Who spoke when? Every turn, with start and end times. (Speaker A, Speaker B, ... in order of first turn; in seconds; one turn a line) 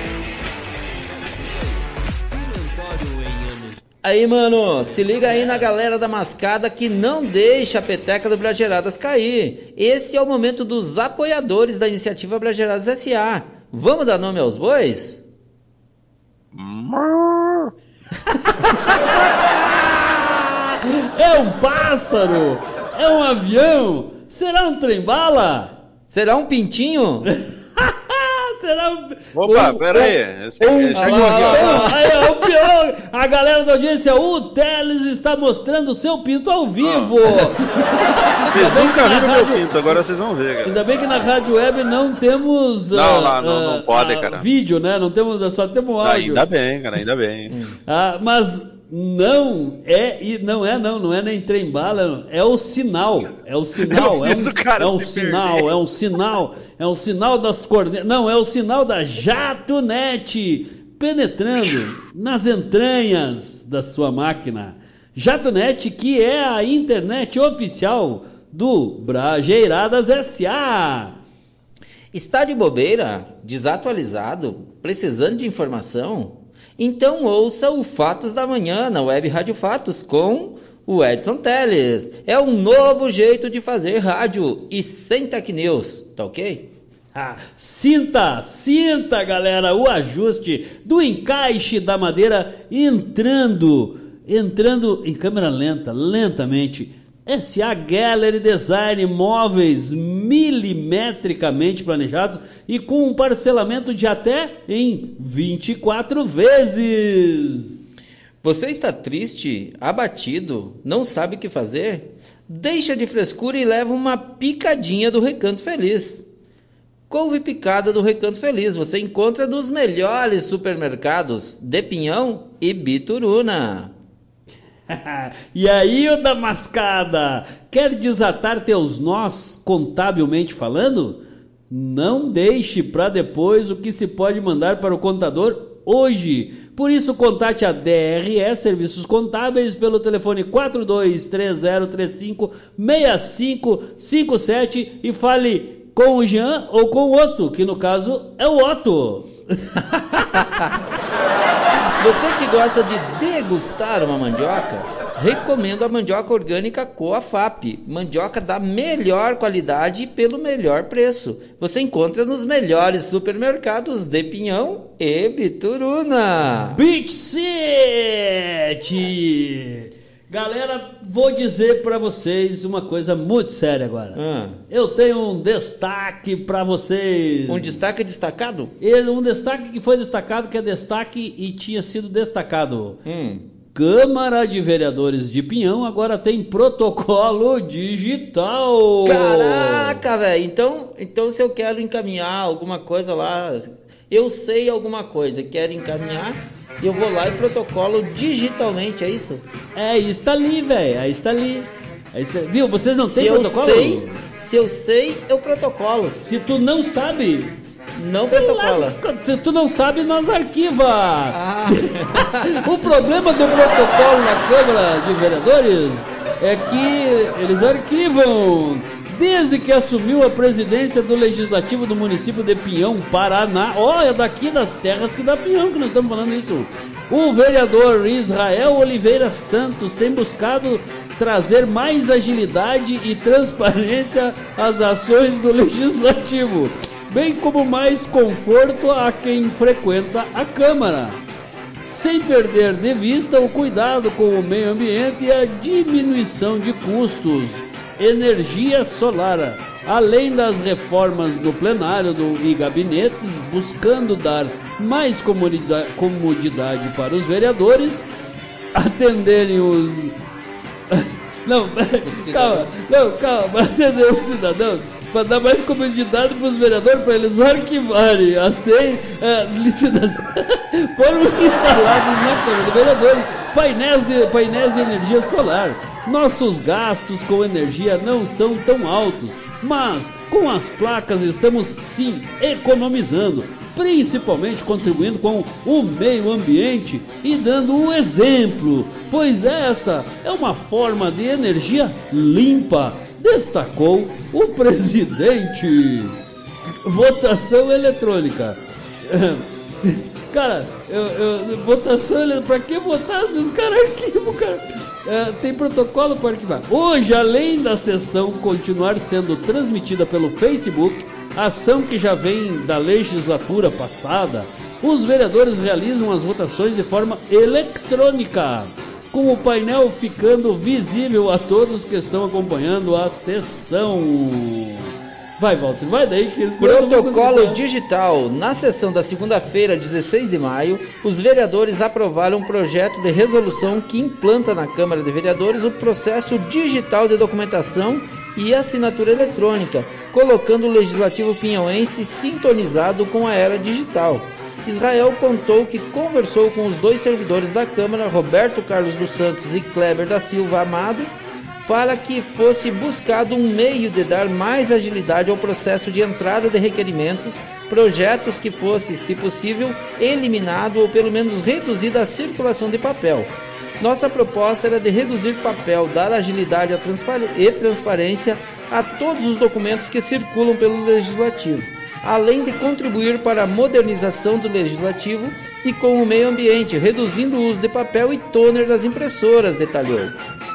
Speaker A: 1.8-3.8
Speaker B: 4.0-15.2
Speaker A: 5.0-5.7
Speaker C: 16.5-17.7
Speaker A: 18.4-19.8
Speaker A: 20.3-25.7
Speaker B: 26.1-27.3
Speaker A: 27.3-39.9
Speaker C: 29.4-32.0
Speaker B: 30.9-32.0
Speaker C: 36.8-37.2
Speaker C: 38.5-40.8
Speaker A: 40.6-46.4
Speaker C: 42.9-44.5
Speaker C: 46.0-47.6
Speaker B: 47.5-47.8
Speaker A: 47.9-71.2
Speaker C: 53.8-55.7
Speaker B: 72.1-86.7
Speaker A: 87.2-107.8
Speaker B: 108.4-116.3
Speaker B: 117.1-123.9
Speaker A: 124.9-149.3
Speaker B: 150.0-150.7
Speaker B: 152.0-166.8
Speaker A: 166.7-174.2
Speaker B: 174.2-174.6
Speaker A: 174.7-177.8
Speaker B: 177.5-178.7
Speaker A: 178.8-183.0
Speaker B: 183.1-183.5
Speaker A: 183.8-190.0
Speaker B: 189.1-199.4
Speaker A: 199.8-204.2
Speaker B: 203.0-206.2
Speaker A: 206.2-207.6
Speaker B: 207.9-209.0
Speaker A: 208.3-241.2
Speaker B: 211.3-212.7
Speaker A: 241.8-258.0
Speaker A: 258.8-260.1
Speaker A: 260.9-296.2
Speaker B: 262.0-262.8
Speaker A: 296.9-327.6
Speaker B: 326.6-351.1
Speaker B: 351.7-380.2